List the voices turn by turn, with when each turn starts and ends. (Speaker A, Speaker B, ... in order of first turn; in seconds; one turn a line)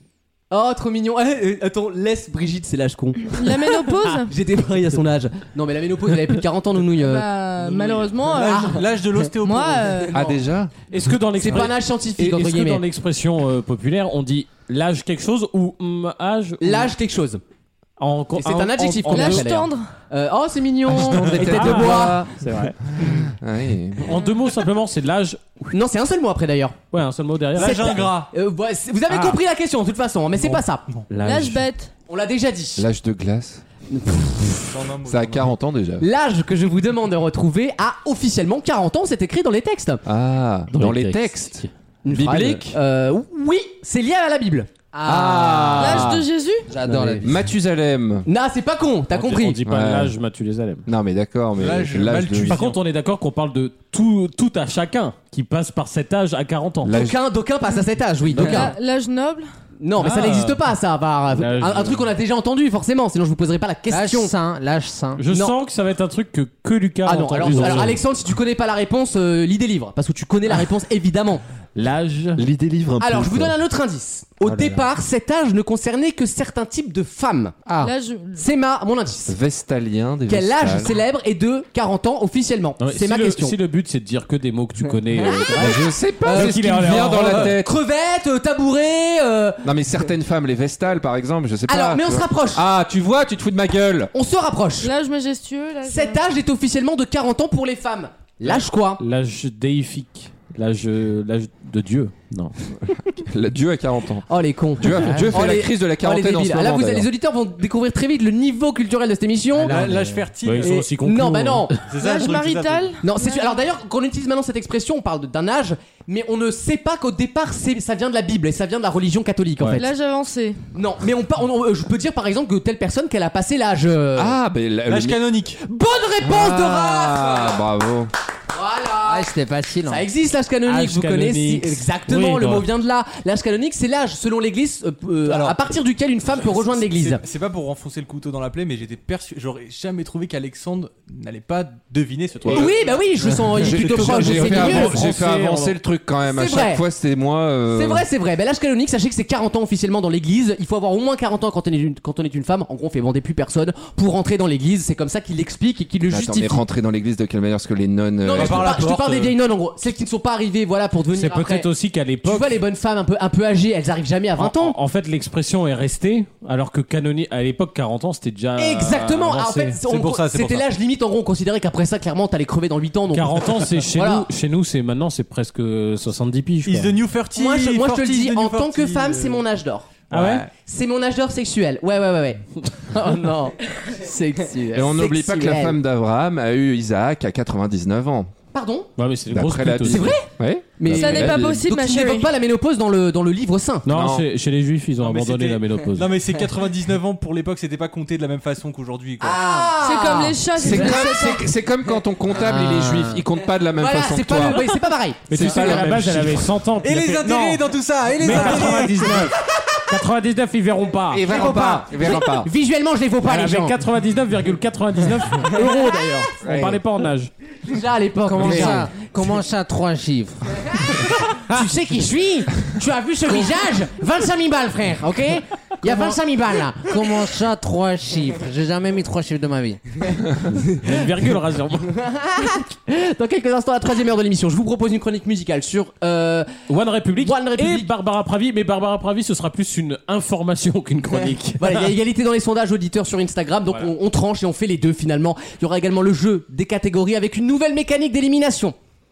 Speaker A: 0.5-7.2
Speaker B: 3.3-4.3
Speaker B: 7.0-8.8
Speaker C: 7.6-10.1
Speaker A: 8.4-8.9
Speaker B: 9.4-10.2
Speaker D: 10.1-10.7
Speaker E: 10.9-16.9
Speaker A: 11.3-12.8
Speaker A: 16.6-17.4
Speaker E: 18.0-19.4
Speaker A: 18.4-22.2
Speaker B: 19.1-19.9
Speaker D: 20.9-22.3
Speaker E: 21.1-22.8
Speaker D: 22.9-24.1
Speaker E: 24.0-25.6
Speaker A: 25.7-26.8
Speaker E: 26.9-28.2
Speaker C: 27.6-28.3
Speaker A: 27.6-30.9
Speaker E: 29.1-29.4
Speaker E: 31.1-31.6
Speaker B: 31.2-31.9
Speaker A: 32.1-32.8
Speaker D: 32.8-33.6
Speaker A: 33.9-34.7
Speaker C: 34.7-35.5
Speaker D: 35.0-36.0
Speaker A: 36.0-40.0
Speaker D: 40.0-42.8
Speaker E: 40.7-41.7
Speaker A: 42.0-46.2
Speaker F: 44.9-46.1
Speaker E: 45.3-46.1
Speaker D: 45.7-46.1
Speaker B: 45.8-46.7
Speaker F: 46.7-47.4
Speaker A: 46.8-47.3
Speaker D: 47.2-48.3
Speaker A: 48.2-49.6
Speaker E: 49.1-50.9
Speaker D: 49.6-50.1
Speaker D: 50.9-52.6
Speaker C: 51.6-52.8
Speaker E: 52.4-57.0
Speaker D: 56.8-57.2
Speaker A: 56.9-58.7
Speaker E: 58.3-58.7
Speaker B: 58.4-59.5
Speaker A: 59.8-64.3
Speaker E: 60.0-60.6
Speaker E: 61.4-62.0
Speaker F: 63.9-65.2
Speaker E: 65.2-68.0
Speaker A: 65.3-65.5
Speaker A: 67.0-71.4
Speaker E: 71.7-72.4
Speaker D: 72.4-73.6
Speaker A: 73.0-77.6
Speaker E: 74.4-74.8
Speaker D: 77.7-77.9
Speaker B: 77.8-78.5
Speaker A: 78.4-79.4
Speaker D: 79.3-80.9
Speaker A: 80.3-83.6
Speaker E: 82.8-87.5
Speaker A: 85.2-89.7
Speaker D: 85.5-87.8
Speaker D: 89.6-94.1
Speaker A: 91.7-92.6
Speaker A: 94.1-94.9
Speaker B: 94.8-96.2
Speaker A: 95.8-99.0
Speaker E: 99.0-102.5
Speaker D: 103.2-104.2
Speaker A: 104.3-111.8
Speaker D: 104.8-107.1
Speaker C: 109.5-110.8
Speaker E: 109.8-111.7
Speaker C: 111.8-112.9
Speaker B: 111.9-113.6
Speaker A: 113.0-119.9
Speaker B: 119.7-120.6
Speaker A: 120.7-124.3
Speaker D: 124.2-125.4
Speaker C: 124.9-125.6
Speaker A: 125.6-127.6
Speaker D: 126.2-128.1
Speaker A: 128.5-129.2
Speaker F: 129.0-130.1
Speaker A: 129.8-137.2
Speaker E: 130.6-132.6
Speaker C: 135.2-135.6
Speaker C: 136.4-144.9
Speaker A: 142.4-145.0
Speaker D: 143.6-148.1
Speaker E: 144.1-145.8
Speaker A: 146.3-146.8
Speaker A: 147.7-156.6
Speaker D: 156.1-158.8
Speaker A: 158.2-161.7
Speaker C: 158.3-159.4
Speaker E: 161.1-162.6
Speaker A: 162.2-164.8
Speaker E: 164.4-169.8
Speaker A: 168.6-174.3
Speaker C: 169.8-170.7
Speaker E: 173.1-176.9
Speaker C: 176.6-179.4
Speaker A: 177.3-183.5
Speaker E: 180.1-180.5
Speaker C: 180.2-180.5
Speaker F: 183.9-184.9
Speaker D: 184.7-188.3
Speaker A: 184.8-185.8
Speaker A: 188.5-188.9
Speaker E: 189.0-190.1
Speaker D: 189.3-191.5
Speaker A: 189.9-193.9
Speaker B: 190.8-192.3
Speaker E: 193.8-196.2
Speaker D: 193.9-194.2
Speaker C: 195.0-199.6
Speaker A: 199.2-201.0
Speaker B: 199.8-201.5
Speaker D: 200.5-204.6
Speaker F: 202.3-203.2
Speaker A: 203.7-206.3
Speaker E: 205.3-207.7
Speaker D: 205.3-206.4
Speaker C: 206.7-209.3
Speaker E: 208.2-209.3
Speaker E: 209.9-211.2
Speaker D: 211.1-212.5
Speaker A: 211.2-213.8
Speaker E: 213.2-217.3
Speaker D: 216.4-216.8
Speaker A: 217.7-218.9
Speaker F: 218.3-220.8
Speaker E: 218.4-218.8
Speaker A: 221.4-226.9
Speaker F: 225.8-226.2
Speaker F: 226.8-230.0
Speaker E: 230.8-231.9
Speaker A: 232.0-236.5
Speaker E: 236.7-241.9
Speaker A: 237.2-237.9
Speaker A: 241.6-248.8